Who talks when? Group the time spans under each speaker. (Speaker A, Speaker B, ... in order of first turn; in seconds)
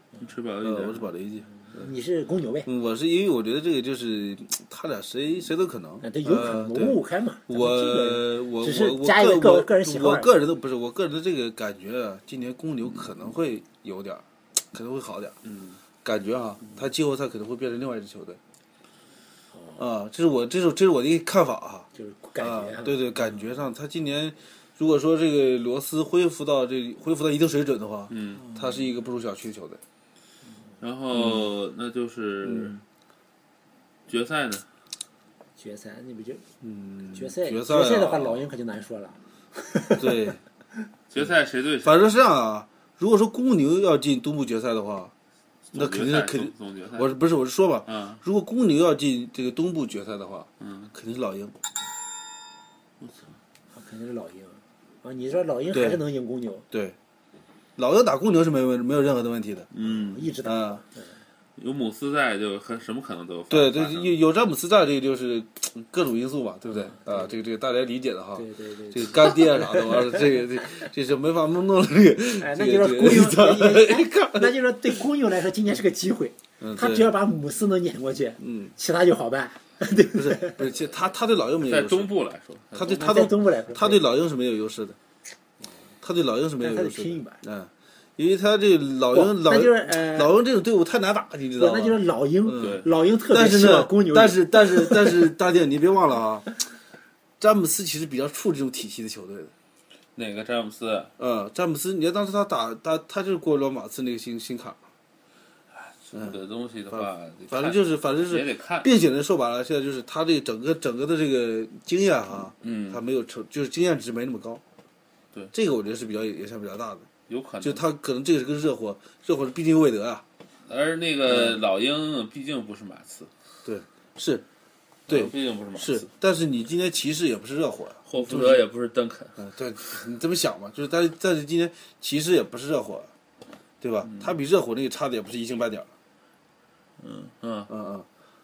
Speaker A: 0.2-1.1, 15.5-15.8, 28.1-28.5, 30.8-32.8, 34.1-34.6, 41.1-42.0, 45.7-47.1, 47.9-48.2, 50.6-50.9, 53.0-53.3, 59.7-60.3, 61.6-64.1, 81.7-83.0, 92.6-92.9, 100.2-101.1, 105.8-108.9, 112.6-113.0, 117.3-117.8, 120.7-123.3, 125.1-126.1, 128.1-129.4, 134.1-134.3, 137.0-137.7
Speaker B: 0.6-1.9, 2.7-15.4, 16.0-18.4, 19.8-21.9, 22.4-29.8, 31.1-31.5, 32.4-32.8, 36.6-38.5, 40.0-40.4, 41.8-45.1, 45.7-51.6, 55.7-56.0, 56.7-57.0, 57.8-59.7, 60.4-60.8, 63.5-75.0, 76.6-77.2, 78.4-78.7, 80.1-82.1, 82.7-85.0, 86.0-96.5, 97.4-99.5, 101.2-104.8, 106.1-106.4, 106.9-114.6, 115.5-117.1, 117.6-120.2, 121.3-121.6, 123.7-124.5, 125.1-128.6, 129.4-133.1, 133.8-135.9, 137.7-138.1
Speaker C: 1.6-2.7, 6.0-10.3, 19.5-19.8, 21.9-23.1, 35.6-36.4, 37.1-40.3, 53.7-56.7, 59.8-61.1, 66.7-67.3, 68.3-70.2, 72.4-80.6, 82.8-84.0, 86.6-87.4, 89.1-90.3, 91.6-95.3